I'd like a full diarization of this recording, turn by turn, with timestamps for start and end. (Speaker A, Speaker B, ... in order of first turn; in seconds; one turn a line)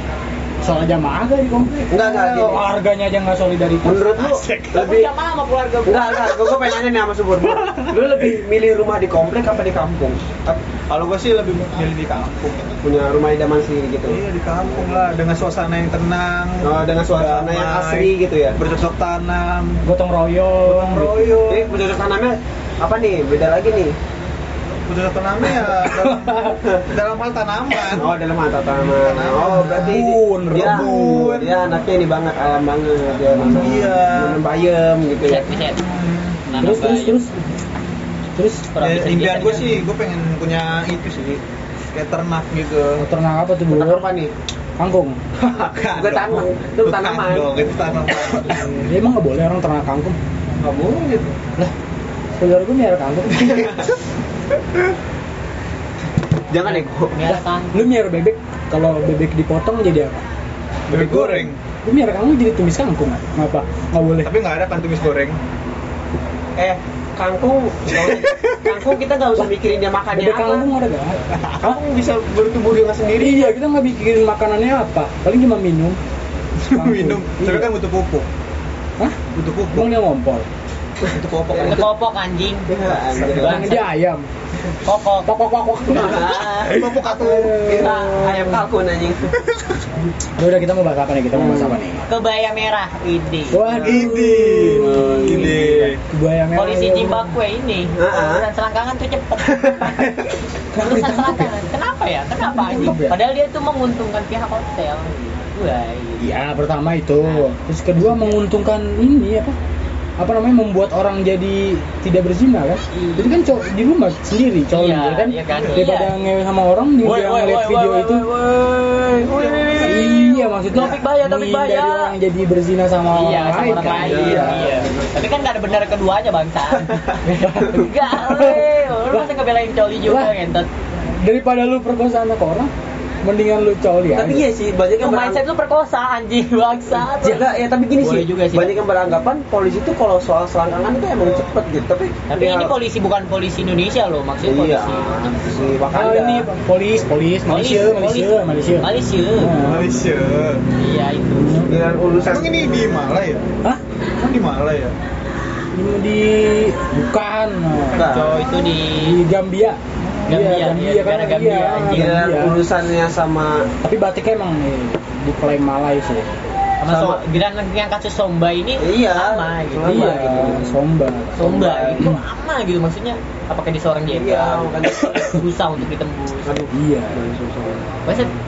Speaker A: 0.6-4.8
Speaker B: 1.9-2.6
Speaker B: 3.8-5.1
Speaker C: 4.7-6.5
Speaker B: 5.8-10.2
Speaker D: 10.5-12.8
Speaker B: 12.8-14.2
Speaker D: 14.1-19.8
Speaker B: 16.6-18.6
Speaker A: 19.8-21.5
Speaker D: 20.7-21.8
Speaker B: 21.5-24.0
Speaker D: 24.9-28.1
Speaker A: 25.8-26.6
Speaker B: 26.6-26.9
Speaker B: 27.9-35.5
Speaker D: 28.8-31.6
Speaker A: 29.6-31.5
Speaker A: 33.3-33.8
Speaker D: 33.5-34.4
Speaker C: 35.2-35.8
Speaker D: 35.8-36.4
Speaker C: 36.5-37.2
Speaker A: 36.6-37.3
Speaker A: 38.3-38.7
Speaker C: 38.7-39.7
Speaker D: 38.8-43.0
Speaker A: 43.0-44.1
Speaker B: 43.7-44.3
Speaker A: 44.8-45.2
Speaker B: 45.4-46.8
Speaker D: 45.6-48.7
Speaker C: 46.0-47.5
Speaker A: 48.4-50.2
Speaker B: 50.6-51.4
Speaker A: 52.4-53.9
Speaker B: 53.4-53.9
Speaker B: 56.5-57.2
Speaker C: 56.6-57.8
Speaker A: 57.3-60.2
Speaker D: 60.9-61.6
Speaker A: 60.9-64.3
Speaker D: 64.2-65.4
Speaker B: 66.6-70.7
Speaker D: 68.1-68.7
Speaker A: 70.1-71.8
Speaker B: 71.6-73.5
Speaker A: 73.2-76.0
Speaker D: 76.7-78.3
Speaker A: 76.7-77.7
Speaker D: 79.3-79.9
Speaker A: 79.7-80.5
Speaker B: 81.0-81.9
Speaker D: 81.1-81.9
Speaker C: 81.6-82.7
Speaker B: 82.7-83.7
Speaker D: 82.9-83.5
Speaker C: 83.2-83.9
Speaker A: 83.3-84.3
Speaker C: 84.8-85.3
Speaker A: 85.2-88.5
Speaker B: 85.9-89.4
Speaker D: 86.3-87.6
Speaker C: 87.8-88.6
Speaker A: 90.4-92.0
Speaker B: 91.3-91.8
Speaker C: 92.1-93.7
Speaker A: 93.5-97.3
Speaker B: 93.7-94.0
Speaker D: 93.8-96.0
Speaker C: 96.5-100.0
Speaker B: 98.0-98.5
Speaker B: 99.5-100.1
Speaker A: 100.7-101.5
Speaker C: 100.8-106.3
Speaker A: 102.4-103.2
Speaker A: 106.2-109.6
Speaker A: 110.2-118.2
Speaker C: 112.9-113.3
Speaker C: 114.7-116.2
Speaker D: 115.5-115.8
Speaker C: 117.0-122.1
Speaker D: 119.4-119.7
Speaker A: 119.8-124.7
Speaker C: 123.1-130.7
Speaker B: 123.8-125.2
Speaker A: 127.4-129.3
Speaker A: 130.1-130.3
Speaker A: 131.1-132.7
Speaker A: 133.2-134.5
Speaker B: 134.2-135.4
Speaker C: 135.0-138.8
Speaker B: 137.2-142.7
Speaker C: 142.3-145.3
Speaker B: 144.4-146.5
Speaker A: 145.9-149.9
Speaker C: 147.5-149.6
Speaker D: 149.6-150.6
Speaker C: 150.8-151.7
Speaker A: 151.4-151.7
Speaker B: 151.7-152.5
Speaker D: 152.2-153.4
Speaker D: 154.2-154.9
Speaker A: 155.7-158.2
Speaker B: 157.9-158.4
Speaker C: 157.9-159.2
Speaker A: 158.9-162.6
Speaker C: 160.3-162.3
Speaker B: 161.9-163.7
Speaker A: 163.8-166.4
Speaker C: 166.8-170.6
Speaker B: 166.9-167.2
Speaker B: 168.8-170.7
Speaker A: 169.8-172.2
Speaker C: 171.4-176.6
Speaker B: 171.4-172.1
Speaker B: 174.1-175.4
Speaker B: 176.5-177.9
Speaker A: 176.7-177.2
Speaker C: 178.1-178.3